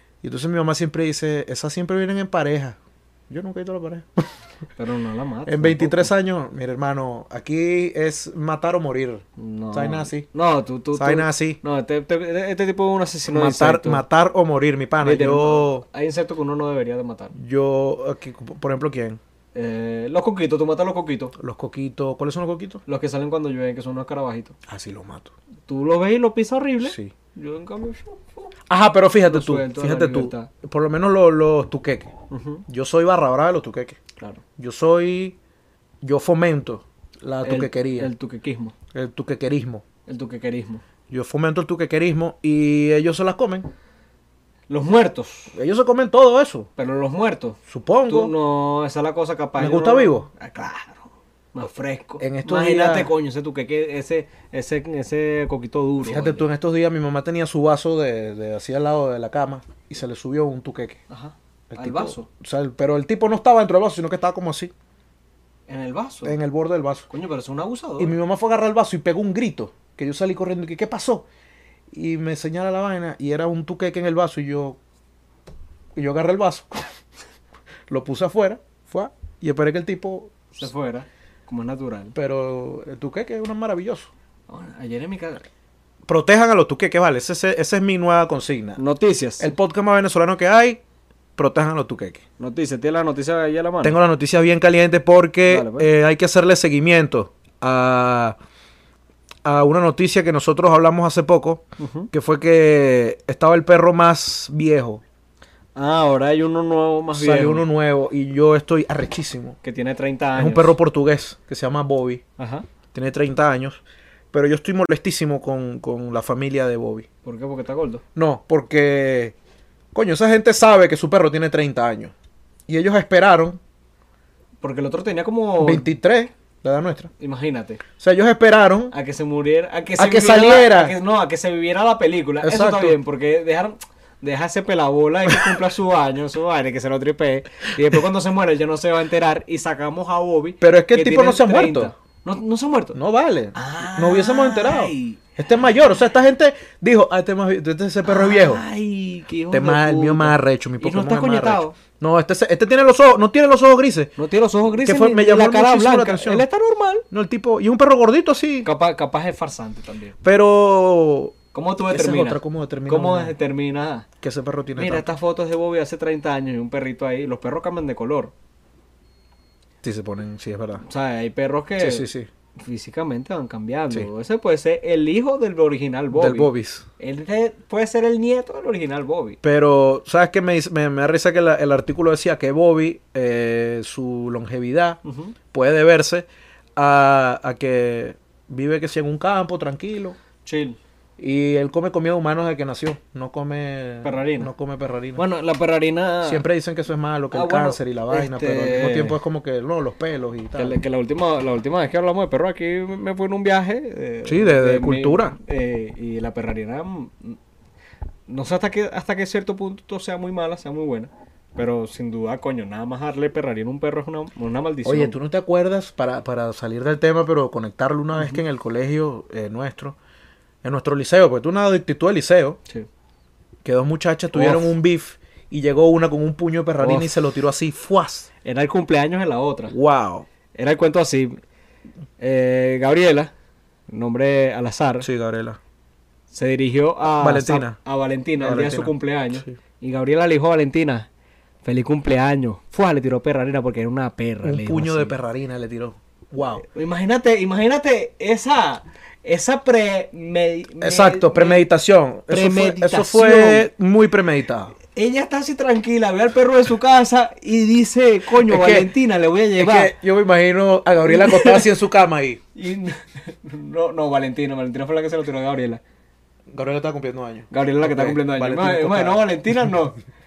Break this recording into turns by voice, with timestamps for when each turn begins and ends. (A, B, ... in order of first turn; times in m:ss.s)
0:00.2-0:02.8 A
0:03.3-0:04.3 A
0:04.8-0:06.1 B
0:05.5-0:10.3 A
0:09.4-0:14.0 B
0:11.0-0:11.6 A
0:13.3-0:15.8 A
0:15.0-0:17.4 B
0:17.3-0:19.2 A
0:19.6-0:21.3 B
0:21.4-0:22.8 A
0:22.9-0:24.6 B
0:24.7-0:25.3 A
0:25.7-0:28.5 B
0:26.8-0:27.1 A
0:28.7-0:32.1 A
0:29.3-0:30.5 B
0:32.3-0:32.6 B
0:32.7-0:34.0 A
0:34.6-0:35.4 A
0:36.0-0:38.1 A
0:37.4-0:38.7 B
0:38.9-0:39.8 A
0:40.1-0:40.8 B
0:41.1-0:43.7 A
0:44.7-0:45.5 B
0:45.5-0:46.7 A
0:46.8-0:56.5 B
0:47.7-0:48.3 A
0:49.6-0:50.3 A
0:52.2-0:53.1 A
0:56.0-1:01.0 A
1:01.1-1:02.3 B
1:01.7-1:04.7 A
1:05.7-1:06.4 B
1:06.2-1:07.1 A
1:07.1-1:08.1 B
1:08.0-1:11.3 A
1:11.9-1:14.8 A
1:16.0-1:16.9 A
1:17.9-1:20.3 A
1:20.5-1:22.2 B
1:22.2-1:24.1 A
1:24.5-1:25.4 B
1:26.1-1:28.8 A
1:28.8-1:29.5 B
1:29.4-1:30.8 A
1:31.4-1:32.2 A
1:32.4-1:34.0 B
1:33.8-1:38.4 A
1:35.5-1:35.9 B
1:39.4-1:45.0 A
1:41.8-1:42.1 B
1:45.8-1:47.7 B
1:47.1-1:49.6 A
1:49.6-1:50.8 B
1:50.4-1:52.2 A
1:52.4-1:52.7 B
1:52.9-1:57.1 A
1:57.2-1:58.0 B
1:58.2-1:59.3 A
1:59.9-2:02.1 A
2:02.7-2:03.6 A
2:04.6-2:05.9 B
2:05.6-2:07.1 A
2:07.2-2:07.8 B
2:08.0-2:08.9 A
2:08.9-2:23.0 B
2:10.0-2:11.0 A
2:12.4-2:13.0 A
2:20.6-2:21.9 A
2:22.9-2:28.6 A
2:23.6-2:25.2 B
2:28.0-2:31.8 B
2:29.5-2:34.1 A
2:34.2-2:37.0 B
2:34.8-2:36.5 A
2:37.1-2:38.7 A
2:38.6-2:40.2 B
2:40.2-2:41.4 A
2:41.5-2:44.1 B
2:41.9-2:43.4 A
2:44.2-2:45.1 A
2:44.8-2:48.3 B
2:49.8-2:50.8 A
2:50.8-2:52.1 B
2:51.8-2:52.3 A
2:52.6-2:59.4 B
2:56.1-2:56.9 A
2:59.4-3:05.0 A
3:05.0-3:05.4 B
3:05.5-3:10.2 A
3:10.4-3:10.8 B
3:11.2-3:15.2 A
3:14.0-3:14.5 B
3:15.2-3:16.4 B
3:16.2-3:20.8 A
3:17.3-3:19.2 B
3:20.6-3:27.4 B
3:24.2-3:25.4 A
3:28.3-3:35.2 B
3:34.8-3:40.0 A
3:38.2-3:38.4 B
3:40.6-3:42.6 A
3:43.6-3:48.3 A
3:44.3-3:44.7 B
3:46.8-3:47.2 B
3:48.4-3:49.8 B
3:49.7-3:50.3 A
3:50.5-3:51.4 B
3:52.2-3:53.3 B
3:53.9-3:55.1 B
3:55.0-3:55.6 A
3:56.3-4:01.1 B
3:57.2-3:57.8 A
3:58.4-3:59.5 A
4:01.6-4:05.2 B
4:04.4-4:06.6 A
4:06.5-4:11.7 B
4:10.8-4:14.8 A
4:12.3-4:13.7 B
4:14.9-4:19.9 B
4:18.3-4:18.9 A
4:19.6-4:22.4 A
4:21.0-4:21.7 B
4:22.6-4:25.8 B
4:26.5-4:29.3 A
4:27.5-4:30.0 B